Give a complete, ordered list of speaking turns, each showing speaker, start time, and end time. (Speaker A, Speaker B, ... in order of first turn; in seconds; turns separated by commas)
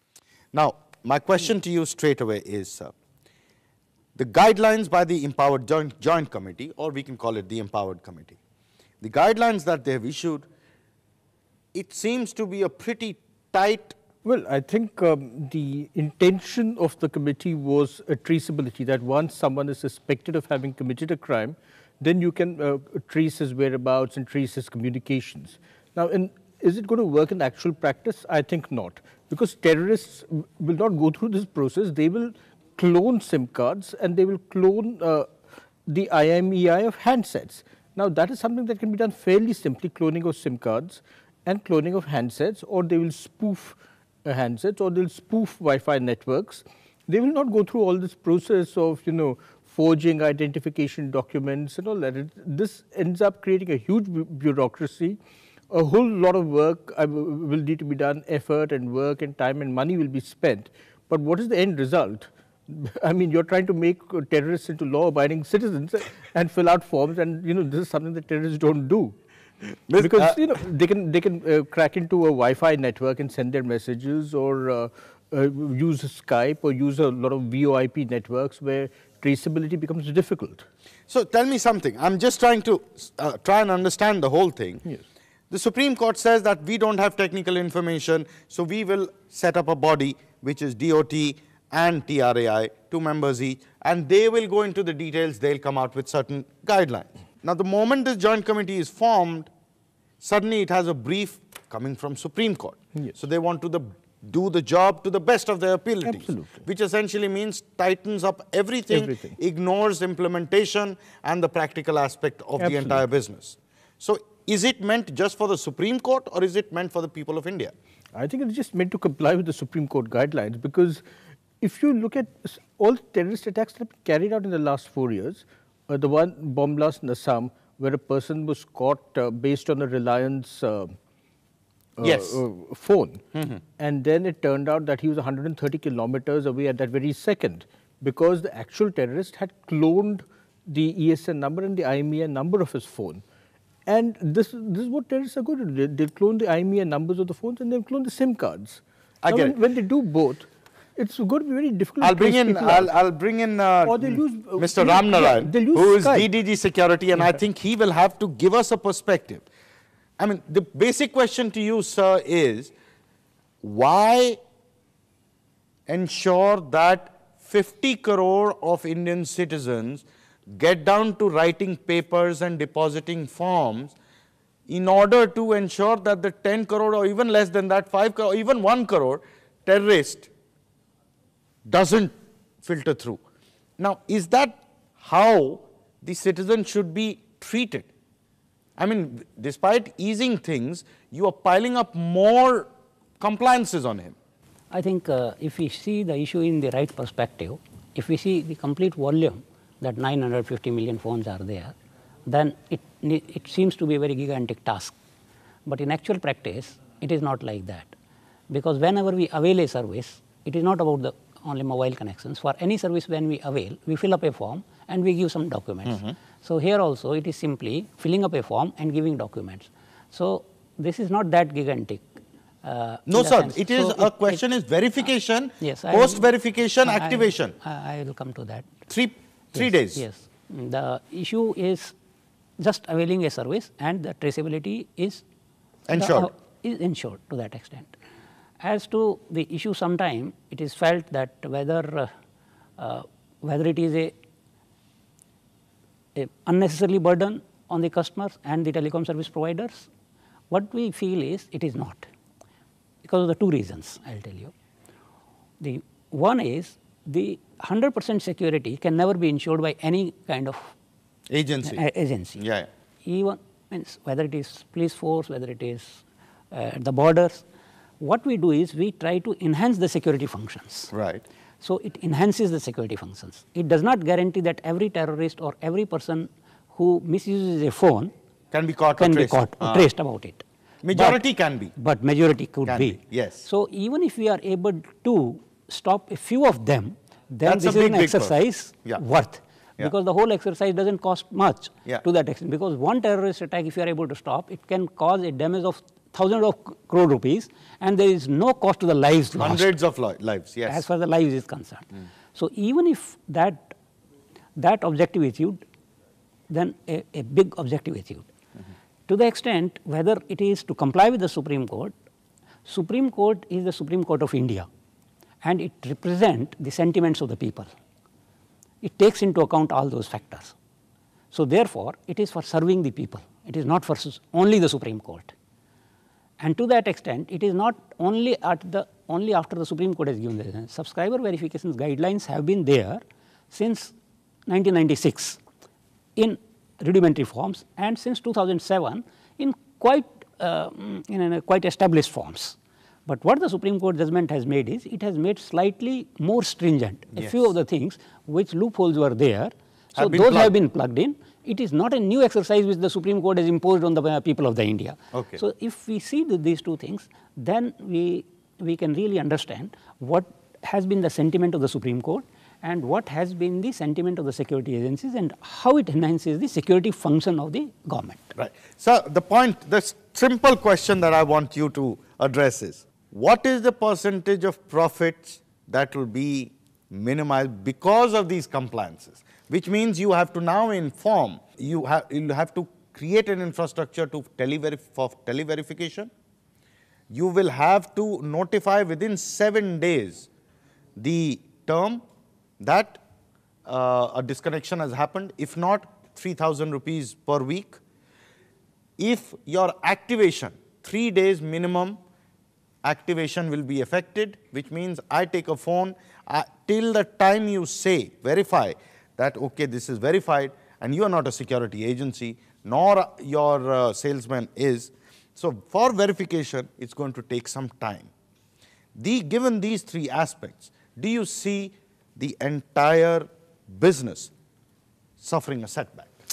Speaker A: 0.5-2.9, Speaker A: 4.2-8.4, Speaker A: 9.0-10.5, Speaker A: 11.7-14.0, Speaker B: 14.2-35.3, Speaker B: 35.9-55.2, Speaker B: 55.7-69.2, Speaker A: 69.9-70.4, Speaker B: 70.0-80.7, Speaker A: 81.1-84.8, Speaker A: 85.5-99.5, Speaker A: 100.2-117.7, Speaker B: 106.0-106.7, Speaker B: 108.9-109.4, Speaker B: 112.6-113.0, Speaker B: 118.2-121.0, Speaker B: 121.6-130.9, Speaker B: 132.0-133.2, Speaker A: 132.0-132.4, Speaker A: 133.3-133.6, Speaker B: 133.8-143.2, Speaker B: 143.9-152.9, Speaker A: 149.2-149.6, Speaker A: 152.0-159.5, Speaker B: 153.9-156.3, Speaker A: 160.2-162.7, Speaker A: 163.6-164.4, Speaker A: 165.9-173.9, Speaker A: 174.7-180.3, Speaker A: 181.7-183.2, Speaker A: 183.8-187.9, Speaker A: 188.8-192.7, Speaker A: 193.2-194.2, Speaker C: 194.7-201.8, Speaker C: 202.3-204.9, Speaker C: 205.7-207.9, Speaker C: 208.5-222.1, Speaker A: 215.9-216.2, Speaker C: 222.6-224.4, Speaker A: 223.1-227.5, Speaker C: 225.0-226.3, Speaker C: 226.8-228.7, Speaker A: 228.9-230.0, Speaker C: 229.6-231.9, Speaker C: 232.6-235.2, Speaker A: 235.9-236.3, Speaker C: 235.9-237.9, Speaker C: 238.6-242.1, Speaker C: 242.8-244.1, Speaker C: 246.2-249.9, Speaker C: 250.5-252.1, Speaker C: 253.0-254.5, Speaker C: 255.6-260.7, Speaker A: 261.3-261.8, Speaker C: 261.6-262.4, Speaker A: 262.4-262.7, Speaker C: 263.1-267.4, Speaker C: 268.0-270.9, Speaker A: 270.9-271.2, Speaker C: 271.6-278.1, Speaker A: 278.5-279.9, Speaker C: 279.0-281.2, Speaker A: 280.8-281.7, Speaker C: 281.8-299.7, Speaker A: 282.7-283.4, Speaker A: 287.4-289.0, Speaker A: 299.4-300.8, Speaker C: 300.7-303.8, Speaker C: 304.6-305.6, Speaker C: 306.5-308.3, Speaker C: 309.1-311.9, Speaker C: 312.6-314.7, Speaker C: 315.4-317.7, Speaker C: 318.8-320.6, Speaker C: 321.3-325.3, Speaker C: 326.4-333.9, Speaker C: 334.5-335.4, Speaker C: 336.1-368.4, Speaker A: 350.0-350.5, Speaker A: 355.1-355.4, Speaker A: 368.4-386.1, Speaker A: 387.1-390.3, Speaker A: 391.0-392.0, Speaker A: 392.6-393.0, Speaker A: 393.6-397.8, Speaker A: 399.0-402.0, Speaker A: 402.8-418.1, Speaker A: 418.9-424.3, Speaker A: 425.2-426.1